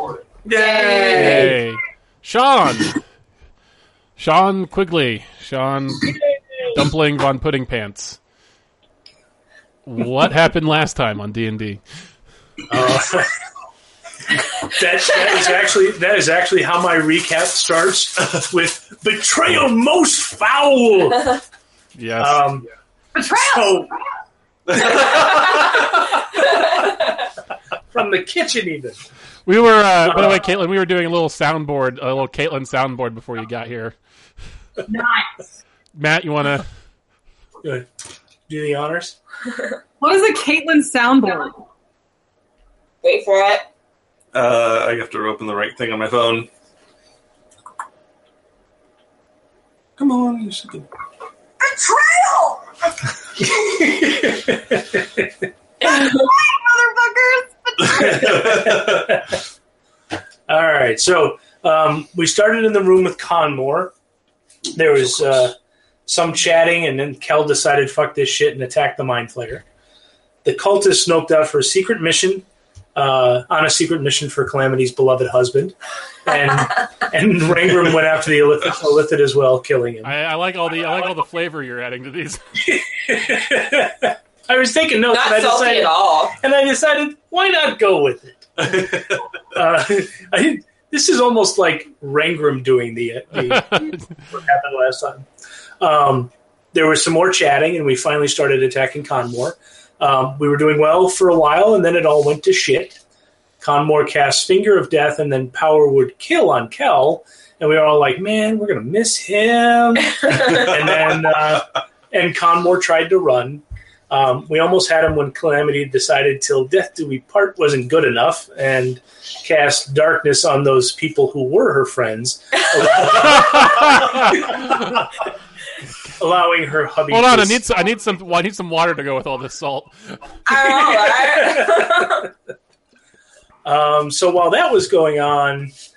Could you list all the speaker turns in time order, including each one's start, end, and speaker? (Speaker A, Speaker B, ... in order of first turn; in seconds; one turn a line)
Speaker A: 0.5-1.6
Speaker B: 0.5-1.1
Speaker C: 1.1-3.0
Speaker D: 1.2-1.5
Speaker C: 4.2-6.1
Speaker C: 6.7-8.2
Speaker C: 9.8-11.8
Speaker D: 12.7-13.4
Speaker D: 14.6-21.4
Speaker C: 21.9-22.5
Speaker D: 22.2-22.7
Speaker E: 23.1-24.0
Speaker D: 23.3-23.9
Speaker B: 24.7-25.4
Speaker D: 25.0-26.6
Speaker D: 27.9-29.0
Speaker C: 29.4-34.0
Speaker D: 30.0-30.4
Speaker E: 34.9-35.4
Speaker C: 36.0-36.7
Speaker D: 37.6-37.9
Speaker D: 38.5-39.1
Speaker E: 40.0-41.6
Speaker A: 43.0-43.7
Speaker B: 44.3-46.5
Speaker B: 50.0-50.9
Speaker E: 51.7-52.6
Speaker D: 53.4-55.3
Speaker A: 55.8-56.3
Speaker E: 55.8-58.3
Speaker D: 57.9-59.4
Speaker B: 58.2-59.0
Speaker D: 60.5-63.9
Speaker D: 64.7-69.6
Speaker D: 70.4-80.1
Speaker C: 80.0-82.4
Speaker D: 82.6-88.9
Speaker A: 85.1-86.3
Speaker B: 88.6-89.1
Speaker D: 89.5-95.3
Speaker D: 95.8-103.0
Speaker D: 103.6-125.1
Speaker C: 123.4-124.3
Speaker D: 126.2-127.6
Speaker C: 127.1-130.2
Speaker A: 130.4-132.3
Speaker D: 130.7-132.3
Speaker D: 133.6-135.7